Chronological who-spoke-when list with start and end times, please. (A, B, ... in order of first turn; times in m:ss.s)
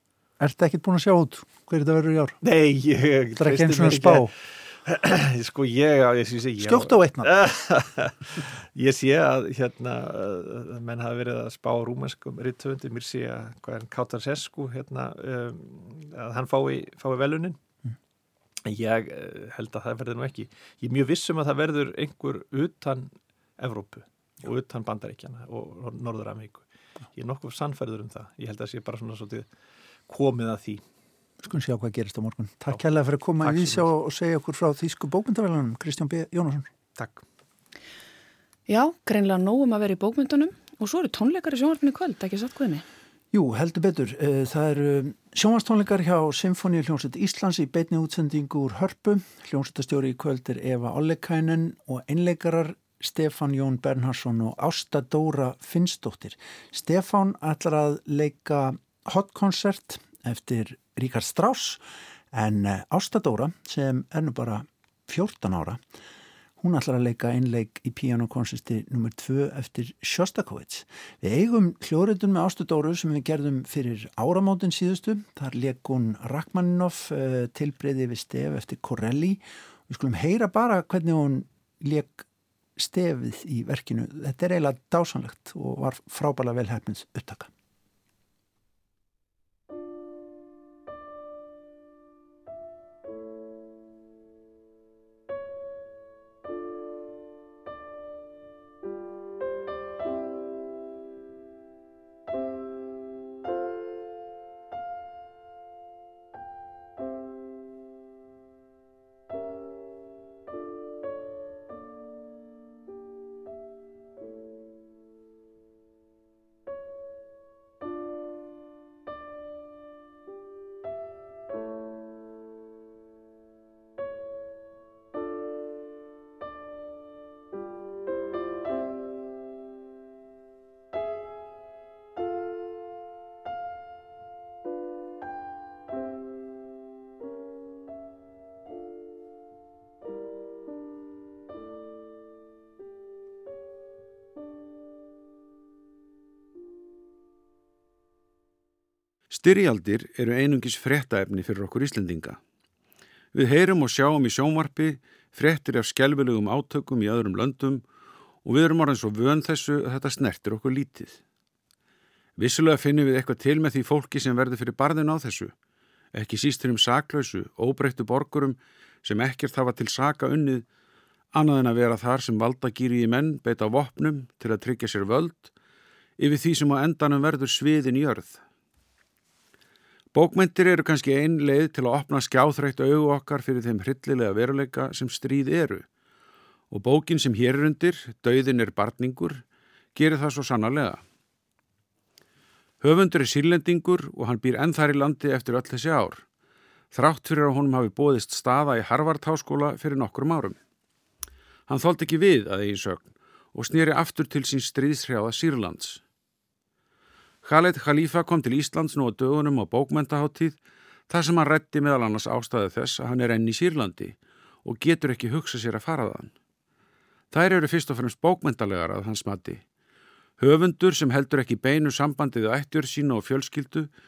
0:00.4-0:02.4 A
0:02.4-0:17.6 B
0:03.4-0:04.3 A
0:06.6-0:07.3 A
0:18.6-0:29.5 B
0:30.1-0:30.8 B
0:31.4-0:36.7 A
0:33.4-0:33.8 B
0:37.0-0:37.2 B
0:38.7-0:42.8 C
0:43.3-1:05.8 A
1:06.6-1:27.5 A
2:29.3-2:32.4 D
2:33.3-2:37.8 D
2:38.4-2:41.2 D
2:42.4-2:45.5 D
2:46.1-2:50.6 D
2:51.3-2:55.5 D
2:56.2-2:58.4 D
3:00.1-3:05.8 D
3:06.7-3:09.4 D
3:09.9-3:11.0 D
3:12.8-3:16.2 D
3:16.9-3:20.6 D
3:21.7-3:26.0 D
3:27.4-3:30.6 D
3:31.1-3:36.3 D
3:37.3-3:39.6 D
3:40.4-3:43.9 D